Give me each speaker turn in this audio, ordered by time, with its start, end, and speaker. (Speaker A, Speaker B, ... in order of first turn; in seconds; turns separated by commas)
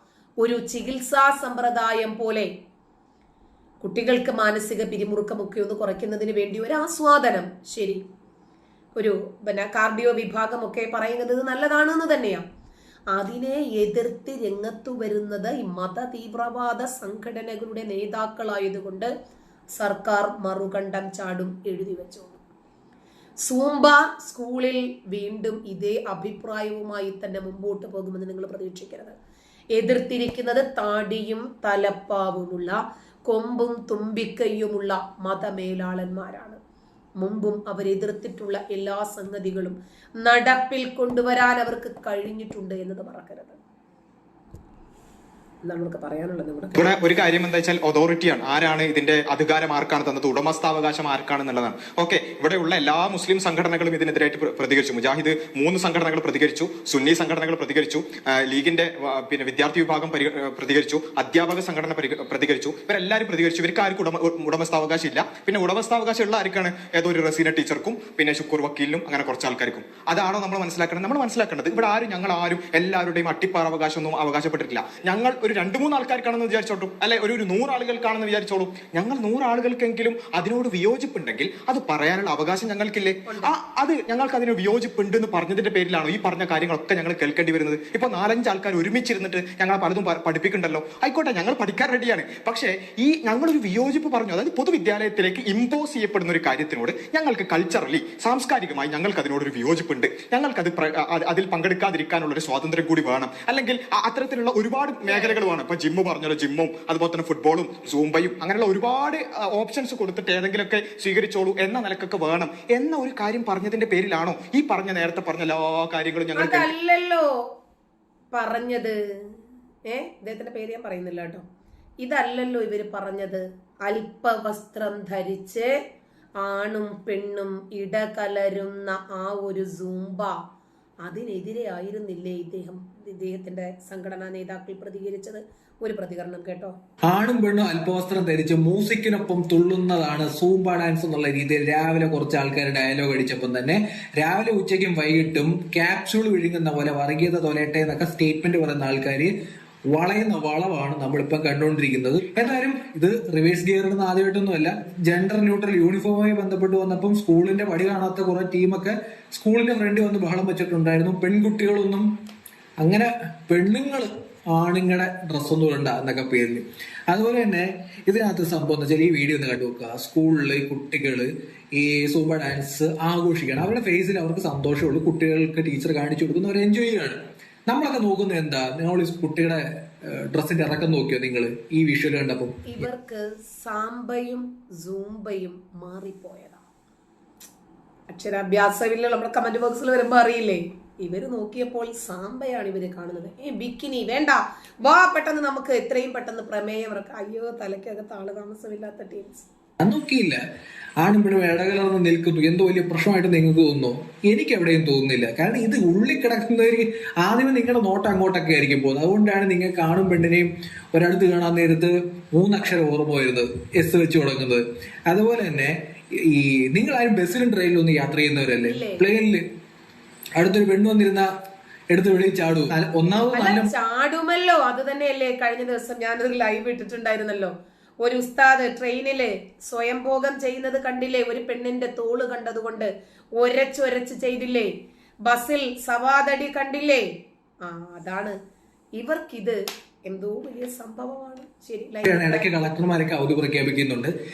Speaker A: 0.4-2.5, Speaker A: 3.8-8.0, Speaker A: 9.0-12.4, Speaker A: 13.1-19.1, Speaker A: 19.8-22.4, Speaker A: 23.4-29.2, Speaker A: 29.7-36.6, Speaker A: 37.2-43.6, Speaker A: 45.7-47.2, Speaker B: 46.7-116.7, Speaker A: 83.2-83.5, Speaker A: 105.1-105.4, Speaker A: 116.3-117.3, Speaker A: 118.3-121.4, Speaker A: 122.0-125.7, Speaker A: 126.4-130.4, Speaker A: 131.0-136.7, Speaker C: 137.1-149.3, Speaker C: 149.9-162.1, Speaker C: 162.8-182.8, Speaker A: 182.7-186.6, Speaker A: 188.1-199.5, Speaker C: 199.8-200.4, Speaker C: 201.0-219.4, Speaker A: 218.6-219.1, Speaker C: 220.4-221.3, Speaker C: 221.9-223.7, Speaker A: 223.3-234.7, Speaker A: 235.2-237.1, Speaker A: 237.6-238.4, Speaker A: 239.0-242.7, Speaker C: 242.0-244.1